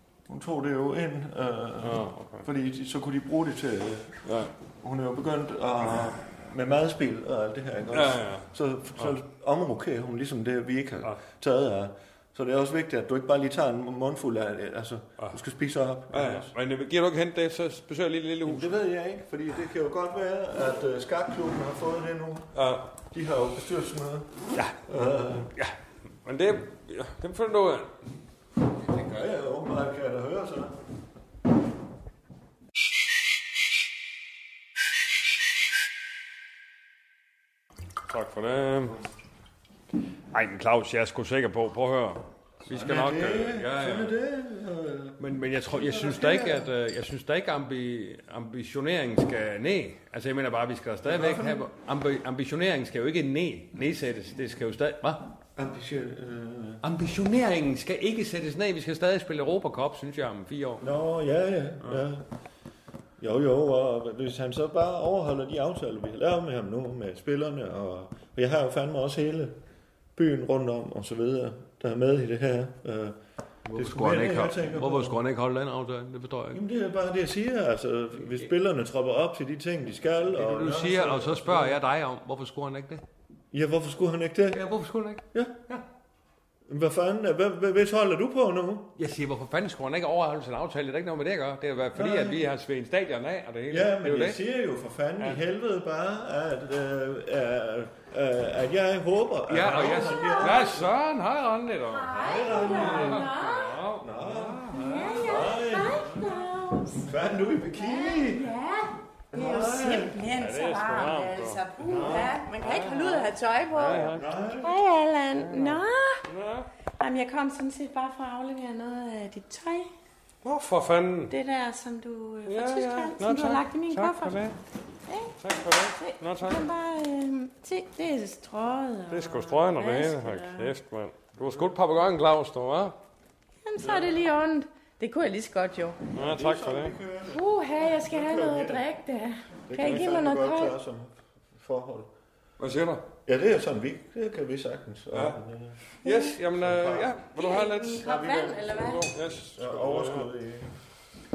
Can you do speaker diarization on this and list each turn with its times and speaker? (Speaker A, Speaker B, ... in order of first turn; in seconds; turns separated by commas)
Speaker A: 0.3-4.2, Speaker B: 1.8-2.5, Speaker B: 4.2-4.5, Speaker A: 4.8-16.5, Speaker B: 7.9-9.1, Speaker B: 16.1-18.8, Speaker A: 18.4-22.6, Speaker B: 22.5-22.9, Speaker A: 23.1-25.5, Speaker B: 25.5-27.9, Speaker A: 28.9-30.7, Speaker B: 38.1-39.0, Speaker B: 40.3-44.1, Speaker A: 42.7-46.7, Speaker B: 45.2-55.2, Speaker A: 51.0-51.6, Speaker A: 55.5-56.8, Speaker B: 56.8-60.8, Speaker A: 60.8-62.2, Speaker A: 63.2-69.6, Speaker A: 70.2-73.2, Speaker B: 73.7-76.6, Speaker A: 73.7-75.2, Speaker A: 76.5-81.8, Speaker B: 80.3-83.0, Speaker A: 83.5-84.6, Speaker B: 84.5-85.8, Speaker A: 85.3-85.7, Speaker A: 86.7-88.9, Speaker B: 89.0-94.4, Speaker A: 91.9-92.5, Speaker A: 93.7-100.9, Speaker B: 99.5-106.2, Speaker C: 100.0-100.6, Speaker C: 101.9-103.8, Speaker A: 102.1-103.3, Speaker A: 104.0-106.2, Speaker C: 104.7-107.1, Speaker A: 107.0-108.5, Speaker C: 107.7-116.2, Speaker A: 109.3-110.2, Speaker B: 110.3-114.3, Speaker A: 111.9-112.3, Speaker A: 114.1-114.8, Speaker B: 115.3-116.7, Speaker C: 117.0-119.9, Speaker B: 120.4-121.3, Speaker C: 121.3-124.4, Speaker B: 122.5-124.6, Speaker C: 125.1-125.4, Speaker B: 125.4-126.6, Speaker C: 125.9-130.7, Speaker B: 129.1-132.9, Speaker C: 133.6-136.0, Speaker B: 136.1-137.0, Speaker A: 136.2-138.8, Speaker C: 137.3-140.7, Speaker A: 139.7-142.1, Speaker B: 142.6-143.1, Speaker A: 143.2-145.8, Speaker B: 146.0-148.1, Speaker C: 146.0-146.3, Speaker A: 146.5-147.2, Speaker C: 147.3-149.1, Speaker A: 147.9-149.0, Speaker B: 148.7-150.3, Speaker A: 149.5-150.7